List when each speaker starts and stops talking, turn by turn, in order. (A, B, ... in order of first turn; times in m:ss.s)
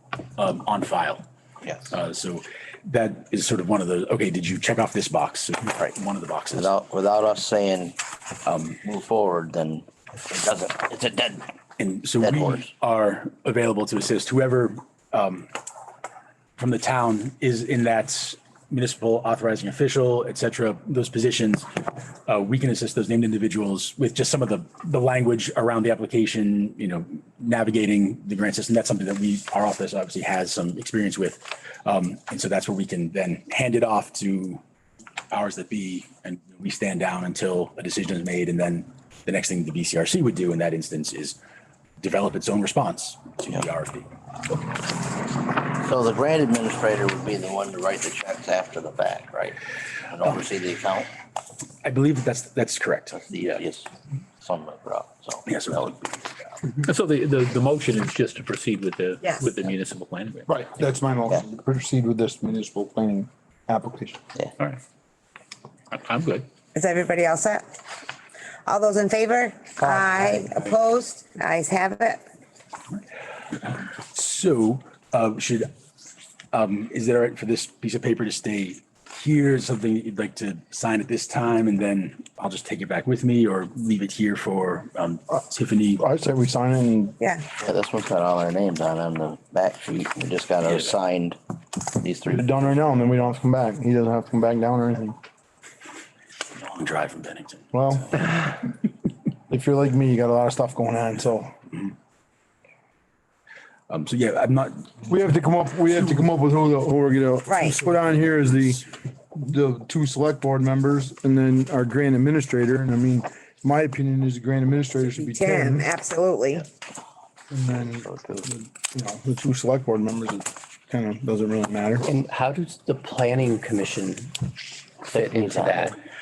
0:00.4-0:01.2 A
0:01.6-0:01.9 B
0:01.9-0:06.7 A
0:06.5-0:08.0 B
0:08.5-0:08.8 A
0:08.8-0:11.5 B
0:11.8-0:15.5 A
0:12.2-0:12.7 B
0:16.6-0:21.7 A
0:22.3-0:34.6 A
0:35.3-0:41.4 A
0:42.0-0:44.1 A
0:45.8-0:51.1 B
0:51.8-0:53.3 A
0:53.3-0:53.9 B
0:54.4-0:56.0 B
0:55.5-0:56.2 A
0:56.7-1:00.5 C
1:00.5-1:04.2 D
1:05.9-1:06.5 C
1:06.7-1:07.6 E
1:08.7-1:12.2 E
1:09.8-1:10.5 B
1:14.0-1:15.7 A
1:16.5-1:26.0 A
1:26.0-1:27.2 D
1:27.2-1:27.5 E
1:27.6-1:31.4 B
1:30.6-1:31.0 A
1:32.0-1:32.7 B
1:32.3-1:35.2 D
1:36.5-1:38.4 A
1:37.7-1:38.1 D
1:39.5-1:41.5 D
1:43.9-1:45.0 A
1:45.0-1:55.9 D
1:47.5-1:47.8 E
1:55.2-1:56.6 E
1:57.5-2:02.1 D
1:57.6-1:58.5 B
2:02.1-2:04.3 F
2:05.1-2:06.0 B
2:05.1-2:06.0 C